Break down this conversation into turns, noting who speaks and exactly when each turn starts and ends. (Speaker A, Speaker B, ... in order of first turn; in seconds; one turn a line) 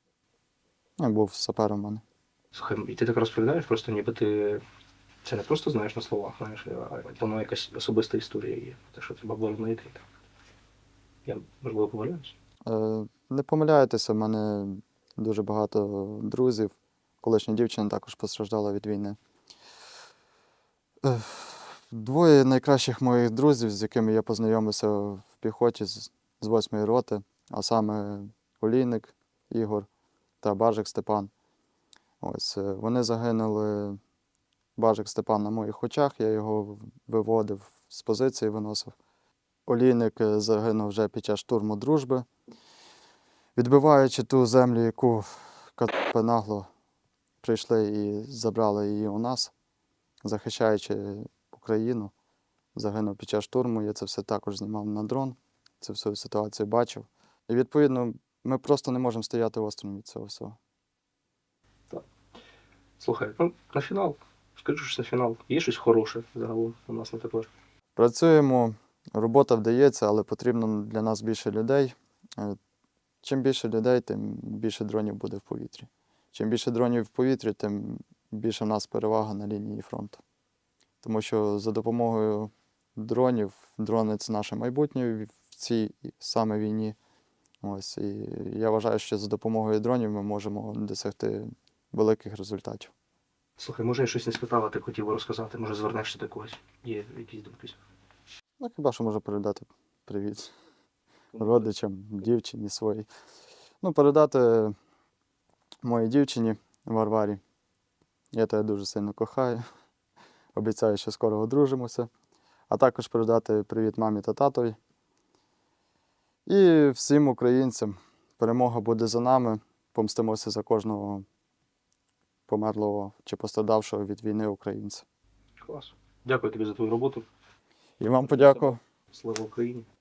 Speaker A: 1.0-2.0
Speaker B: 2.5-4.6
Speaker B: 5.2-10.0
Speaker B: 11.2-12.3
Speaker A: 12.7-19.2
Speaker A: 21.0-29.9
Speaker A: 30.4-31.3
Speaker A: 32.2-34.0
Speaker A: 34.8-39.0
Speaker A: 39.7-42.3
Speaker A: 43.5-46.7
Speaker A: 47.4-49.5
Speaker A: 50.2-52.1
Speaker A: 52.7-60.6
Speaker B: 63.0-67.5
Speaker A: 68.0-72.6
Speaker A: 73.2-80.2
Speaker A: 81.0-87.0
Speaker A: 87.6-92.9
Speaker B: 93.6-97.8
Speaker A: 98.6-100.5
Speaker B: 101.3-101.7
Speaker A: 101.4-103.1
Speaker A: 103.8-104.7
Speaker A: 105.8-107.4
Speaker A: 108.3-109.6
Speaker A: 110.5-112.1
Speaker A: 112.7-114.8
Speaker A: 116.5-121.2
Speaker A: 122.5-125.0
Speaker B: 125.6-127.2
Speaker A: 128.0-128.8
Speaker B: 128.2-129.8